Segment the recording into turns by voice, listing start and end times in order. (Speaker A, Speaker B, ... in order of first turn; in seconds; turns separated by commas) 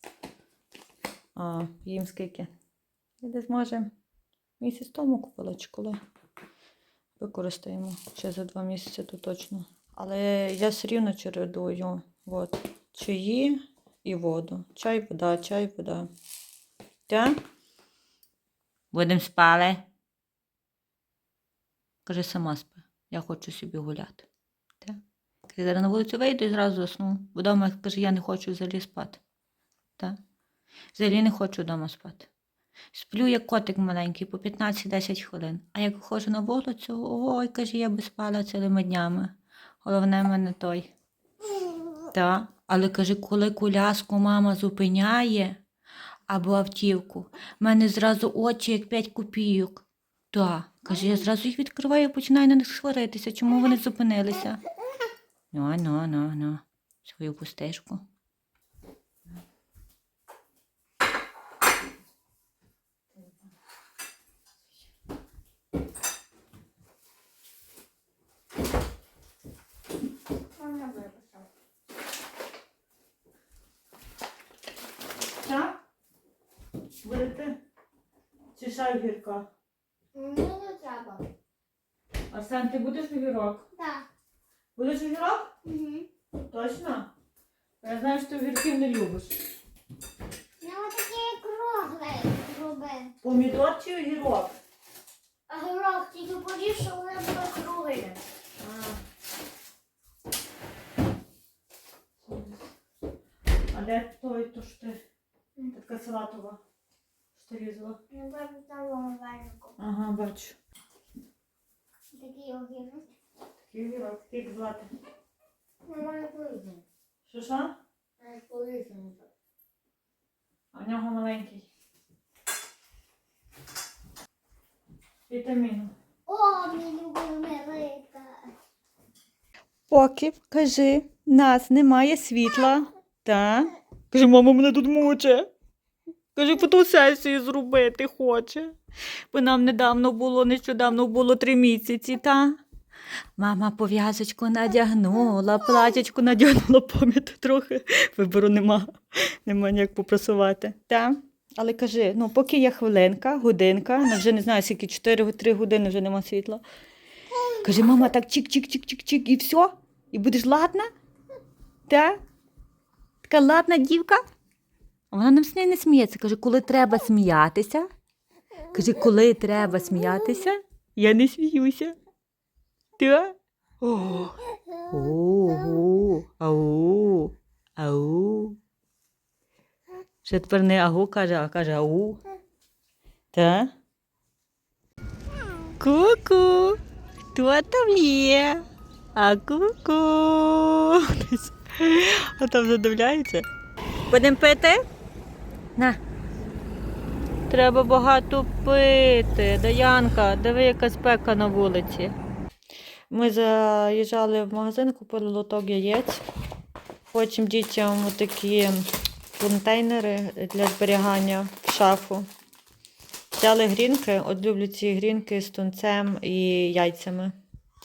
Speaker A: 1.4-2.5, Speaker A: 3.2-3.9, Speaker A: 4.6-6.0, Speaker A: 7.2-16.1, Speaker A: 17.1-17.4, Speaker A: 18.9-19.9, Speaker A: 22.1-24.3, Speaker A: 24.8-29.2, Speaker A: 30.9-32.3, Speaker A: 32.9-40.9, Speaker A: 42.1-45.6, Speaker A: 46.3-54.6, Speaker A: 55.5-58.0, Speaker B: 70.6-71.5, Speaker A: 75.3-75.8, Speaker A: 77.0-77.6, Speaker A: 78.5-79.5, Speaker B: 80.2-81.3, Speaker A: 82.3-83.6, Speaker B: 83.8-84.1, Speaker A: 84.8-85.5, Speaker B: 85.7-86.1, Speaker A: 86.4-87.1, Speaker A: 87.8-89.4, Speaker B: 90.6-93.1, Speaker A: 93.2-94.5, Speaker B: 95.5-98.2, Speaker A: 98.6-99.0, Speaker A: 102.2-102.6, Speaker A: 103.7-105.0, Speaker A: 105.7-106.6, Speaker A: 107.3-108.0, Speaker B: 108.1-109.7, Speaker A: 109.8-110.6, Speaker B: 112.1-113.1, Speaker A: 113.7-114.9, Speaker B: 115.9-116.8, Speaker A: 117.2-117.8, Speaker B: 118.2-119.2, Speaker A: 120.7-121.7, Speaker A: 125.3-125.9, Speaker B: 126.3-128.5, Speaker A: 129.9-135.5, Speaker A: 136.4-138.7, Speaker A: 139.3-142.6, Speaker A: 143.4-156.6, Speaker A: 157.6-160.9, Speaker A: 161.9-162.2, Speaker A: 163.2-164.2, Speaker A: 165.1-167.9, Speaker A: 168.7-171.9, Speaker A: 173.0-174.4, Speaker A: 174.9-178.6, Speaker A: 180.2-182.2, Speaker A: 183.3-183.8, Speaker A: 185.8-186.8, Speaker A: 187.3-188.6, Speaker A: 189.2-193.4, Speaker A: 194.1-194.8, Speaker A: 197.5-202.2, Speaker A: 203.1-206.2, Speaker A: 207.1-212.3, Speaker A: 213.3-217.4